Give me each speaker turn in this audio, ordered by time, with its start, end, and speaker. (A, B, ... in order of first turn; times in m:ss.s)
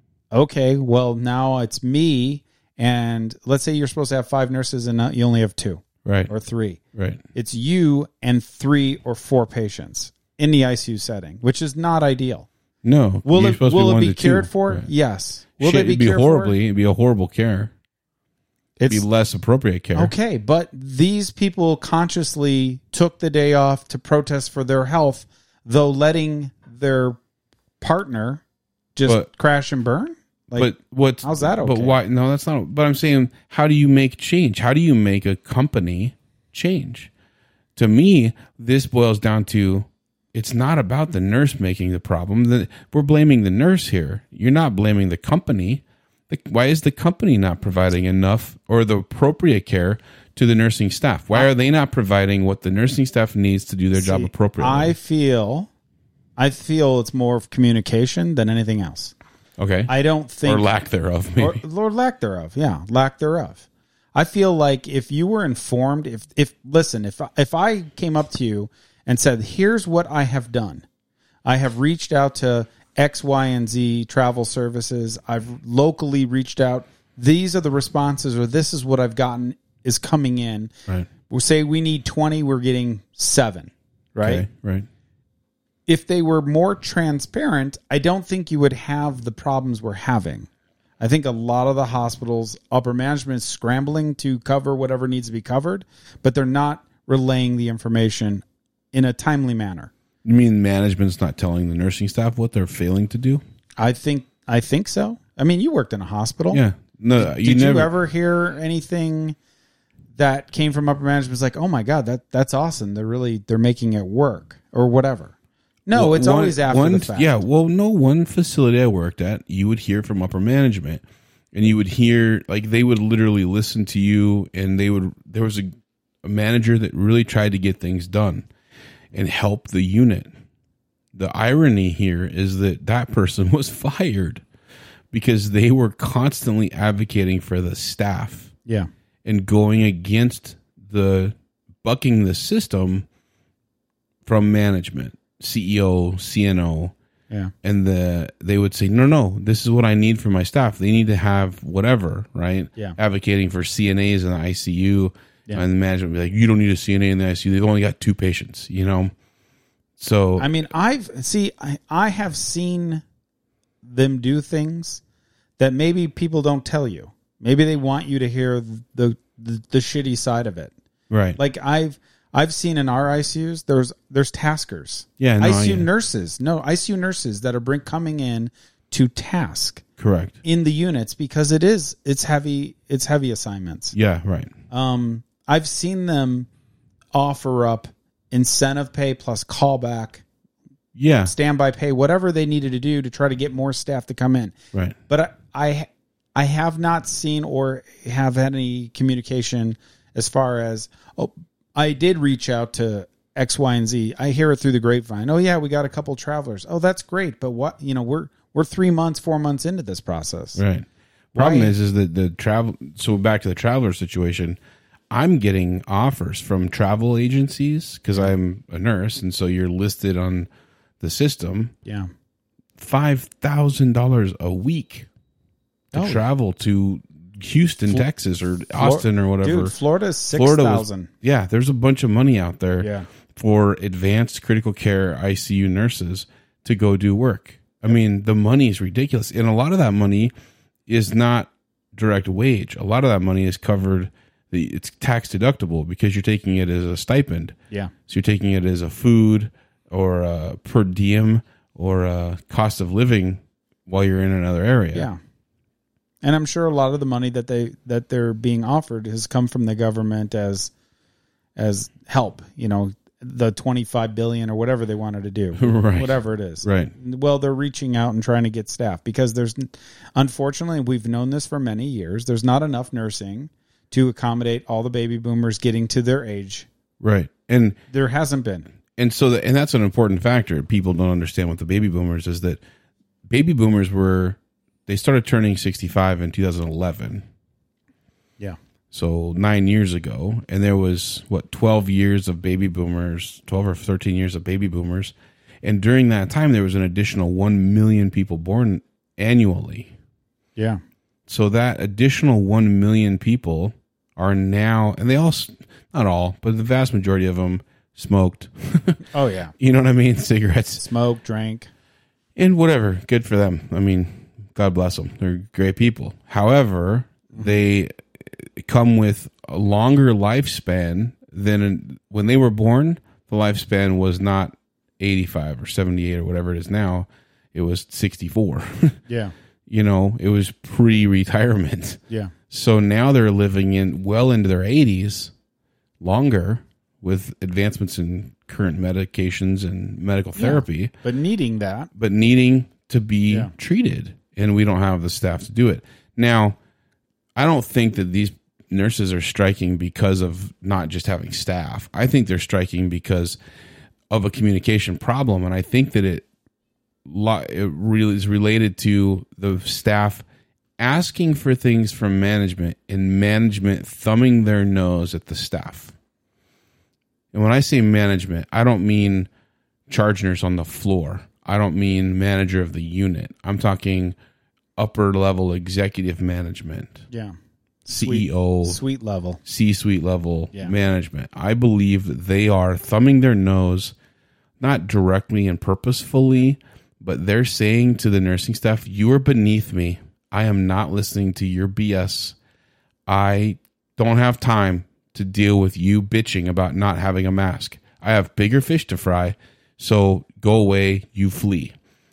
0:00.3-0:06.8 A
0:06.0-0:06.3 B
0:06.9-0:07.2 B
0:07.3-0:12.5 A
0:12.8-0:14.9 B
0:13.2-0:16.6 A
0:15.6-0:17.7 B
0:18.8-0:19.0 A
0:18.9-0:20.1 B
0:20.0-0:27.2 A
0:27.8-0:28.4 A
0:29.0-0:32.0 A
0:30.6-0:37.1 B
0:37.8-0:55.0 B
0:53.9-0:55.7 A
0:56.4-0:59.1 A
0:59.6-0:59.9 B
0:59.9-1:00.7 A
1:00.4-1:01.6 B
1:01.4-1:10.8 A
1:11.5-1:20.7 A
1:21.3-1:24.4 A
1:24.2-1:24.9 B
1:25.9-1:30.5 A
1:31.0-1:39.9 A
1:40.2-1:43.4 B
1:43.8-1:46.6 A
1:46.5-1:47.9 B
1:47.2-1:49.4 A
1:50.2-1:55.3 A
1:55.9-1:57.4 A
1:55.9-2:05.7 B
2:06.2-2:08.5 B
2:09.1-2:10.3 B
2:11.1-2:14.4 B
2:15.1-2:18.5 B
2:19.2-2:23.1 B
2:24.3-2:26.9 B
2:27.6-2:39.1 B
2:40.0-2:40.5 B
2:40.4-2:43.0 A
2:43.8-2:45.0 A
2:45.6-2:50.7 A
2:51.1-2:51.4 B
2:51.4-2:59.8 A
2:55.2-2:55.9 B
3:00.0-3:00.4 B
3:00.4-3:04.0 A
3:03.9-3:04.5 B
3:04.7-3:06.5 A
3:07.1-3:10.2 A
3:11.0-3:11.3 B
3:11.2-3:14.6 A
3:15.1-3:30.6 A
3:30.6-3:34.6 B
3:31.4-3:31.7 A
3:35.1-3:40.5 B
3:41.0-3:41.7 B
3:41.8-3:42.1 A
3:42.8-3:45.1 B
3:45.9-3:46.2 A
3:45.9-3:49.8 B
3:48.7-3:51.1 A
3:50.3-4:00.3 B
3:52.8-3:53.1 A
4:00.9-4:07.6 B
4:08.1-4:15.1 B
4:14.9-4:15.2 A
4:16.2-4:20.7 A
4:21.6-4:36.7 A
4:25.6-4:26.9 B
4:37.0-4:37.8 B
4:37.9-4:38.7 A
4:39.0-4:42.6 B
4:43.3-4:47.2 B
4:48.9-4:59.9 B
5:01.3-5:09.0 B
5:09.1-5:09.5 A
5:09.6-5:10.8 B
5:10.8-5:11.7 A
5:12.4-5:29.0 B
5:29.7-5:35.3 B
5:36.0-5:40.9 B
5:40.4-5:41.9 A
5:42.0-5:46.6 B
5:47.4-5:53.4 B
5:54.1-5:56.3 B
5:57.1-6:00.2 B
6:00.8-6:05.9 B
6:07.3-6:09.3 B
6:09.9-6:14.2 B
6:14.8-6:17.1 B
6:17.9-6:19.4 A
6:17.9-6:18.8 B
6:19.4-6:24.0 B
6:24.6-6:32.4 B
6:33.1-6:41.8 B